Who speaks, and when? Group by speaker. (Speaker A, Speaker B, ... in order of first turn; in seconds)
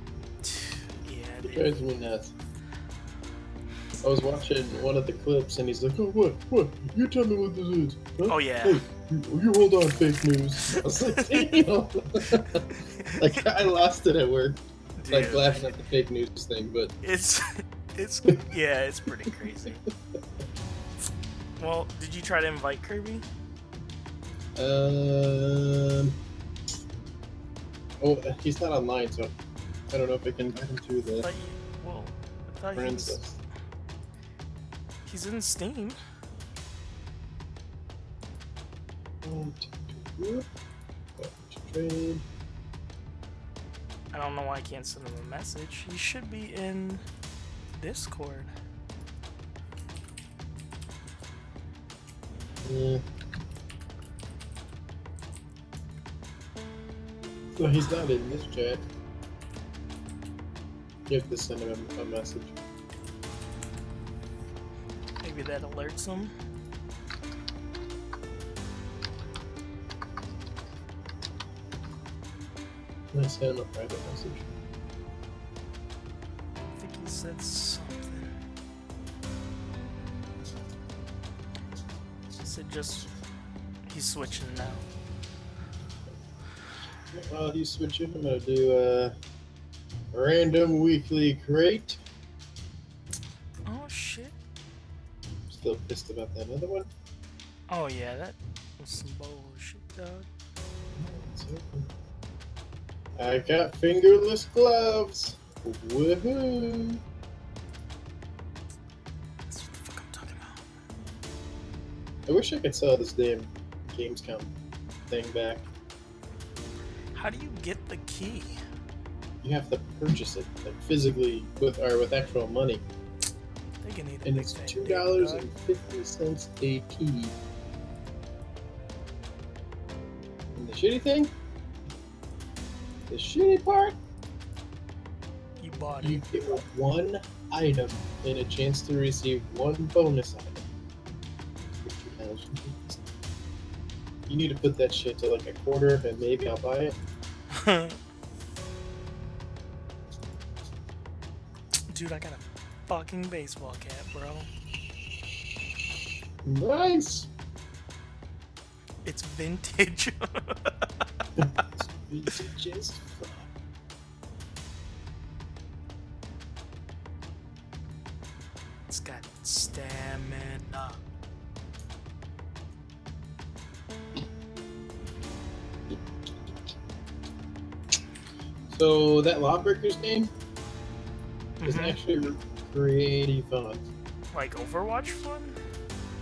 Speaker A: 0.4-1.8, 8.3-8.8, 10.8-11.5, 12.8-13.3, 15.0-15.7, 17.0-19.8, 21.6-23.2, 31.2-33.2, 35.0-36.0, 44.1-47.0, 47.8-48.5, 65.2-66.3, 76.8-78.3, 82.3-83.1, 83.9-84.8, 93.7-94.3, 97.7-100.3, 109.5-110.6, 117.1-118.6, 123.8-125.5, 135.6-136.5, 147.5-148.0, 151.9-154.5, 159.0-160.9, 168.9-171.0, 181.6-182.0, 184.3-185.6
Speaker B: 1.4-2.3, 4.0-16.9, 24.6-26.1, 28.0-29.3, 29.9-31.2, 32.8-33.4, 39.2-40.5, 41.2-42.2, 52.6-53.0, 57.6-58.8, 61.1-62.5, 73.1-74.5, 87.1-89.1, 90.1-92.0, 95.5-96.9, 101.0-101.9, 103.2-107.0, 112.3-114.5, 115.1-115.6, 119.4-122.8, 124.2-127.3, 130.6-131.3, 133.1-134.0, 136.0-140.6, 141.8-143.0, 144.3-146.9, 156.4-157.3, 161.4-163.5, 178.7-180.3, 181.6-183.9